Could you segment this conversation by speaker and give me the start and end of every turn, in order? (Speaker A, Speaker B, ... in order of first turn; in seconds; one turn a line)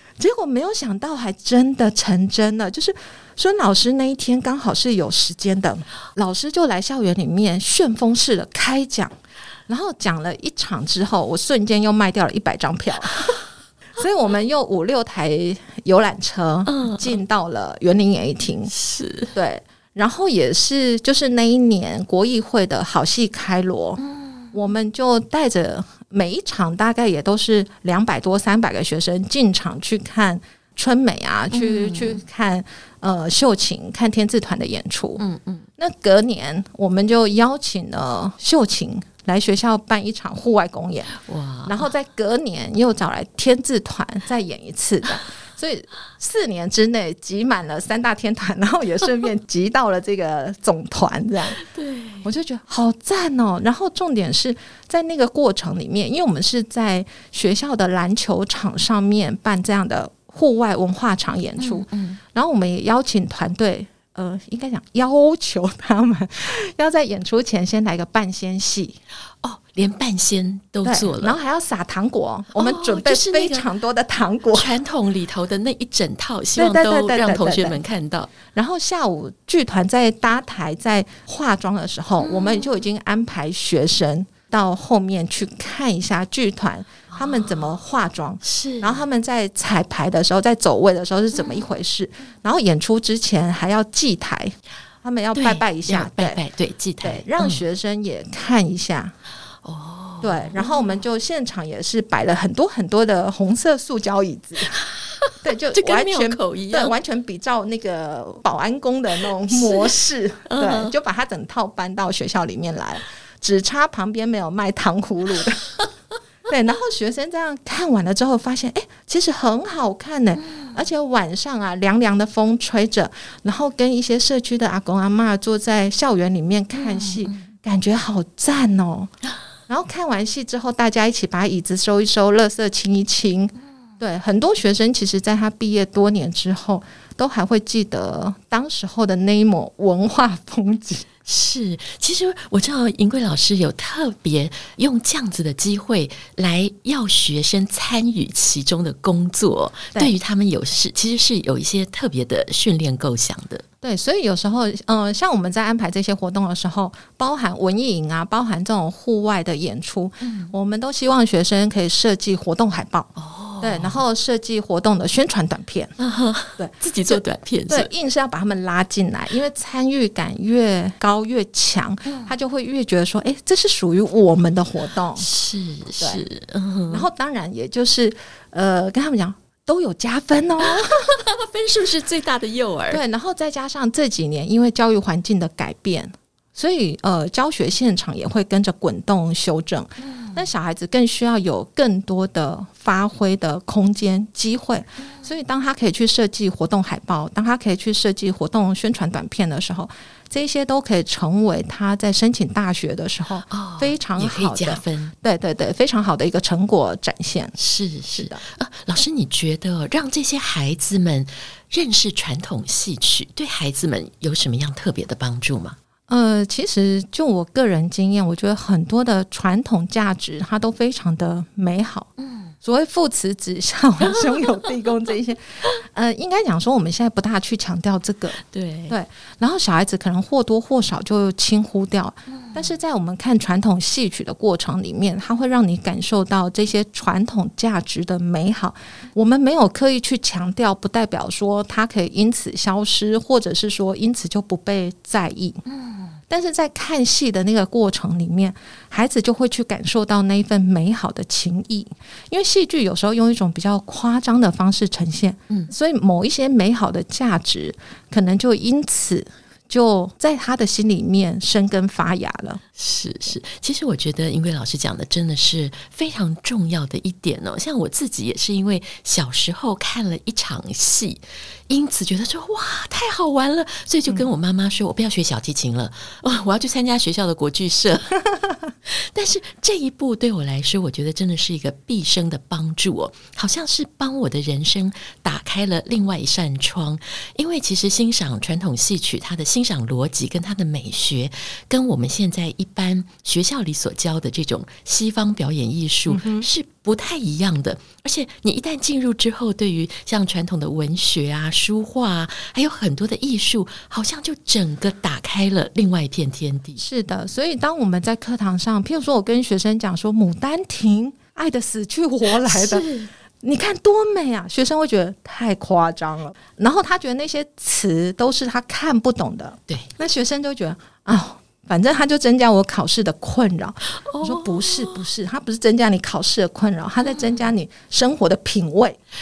Speaker A: 0.2-9.1
Speaker A: 9.7-13.4
Speaker A: 13.9-18.7
Speaker B: 16.7-17.2
Speaker B: 18.7-19.3
Speaker A: 19.3-24.0
Speaker B: 24.0-24.5
Speaker A: 24.5-35.2
Speaker B: 31.5-32.2
Speaker B: 35.2-35.6
Speaker A: 35.8-51.6
Speaker B: 41.2-41.8
Speaker B: 51.6-52.3
Speaker A: 52.2-69.0
Speaker B: 61.6-62.2
Speaker B: 69.4-71.3
Speaker A: 70.8-74.7
Speaker B: 72.5-73.7
Speaker B: 74.5-78.3
Speaker A: 76.5-77.8
Speaker A: 78.5-96.4
Speaker B: 82.2-82.7
Speaker B: 87.1-87.8
Speaker B: 88.4-89.0
Speaker B: 91.4-91.6
Speaker B: 95.3-97.6
Speaker A: 97.0-99.1
Speaker B: 99.6-101.0
Speaker A: 100.2-104.8
Speaker B: 104.7-106.9
Speaker A: 105.4-115.7
Speaker B: 109.5-110.0
Speaker B: 110.5-110.9
Speaker A: 116.5-129.1
Speaker B: 120.4-120.8
Speaker B: 126.7-127.4
Speaker A: 129.7-141.1
Speaker B: 141.2-153.6
Speaker A: 153.8-165.9
Speaker B: 160.2-160.5
Speaker B: 163.2-164.0
Speaker B: 166.0-167.9
Speaker A: 166.6-175.3
Speaker B: 172.1-172.3
Speaker B: 175.2-177.1
Speaker A: 176.9-181.2
Speaker B: 180.6-183.0
Speaker A: 182.9-207.6
Speaker B: 190.0-190.4
Speaker B: 195.0-195.2
Speaker B: 203.5-205.1
Speaker B: 207.6-215.8
Speaker A: 208.1-208.4
Speaker A: 216.1-222.1
Speaker B: 222.2-222.5
Speaker A: 222.6-245.6
Speaker B: 228.4-228.9
Speaker B: 232.3-232.7
Speaker B: 245.7-246.2
Speaker A: 246.3-262.6
Speaker B: 262.7-278.2
Speaker B: 278.8-306.8
Speaker A: 296.1-296.5
Speaker A: 306.8-312.8
Speaker B: 312.4-313.1
Speaker A: 313.4-329.0
Speaker B: 324.0-325.0
Speaker B: 327.0-327.4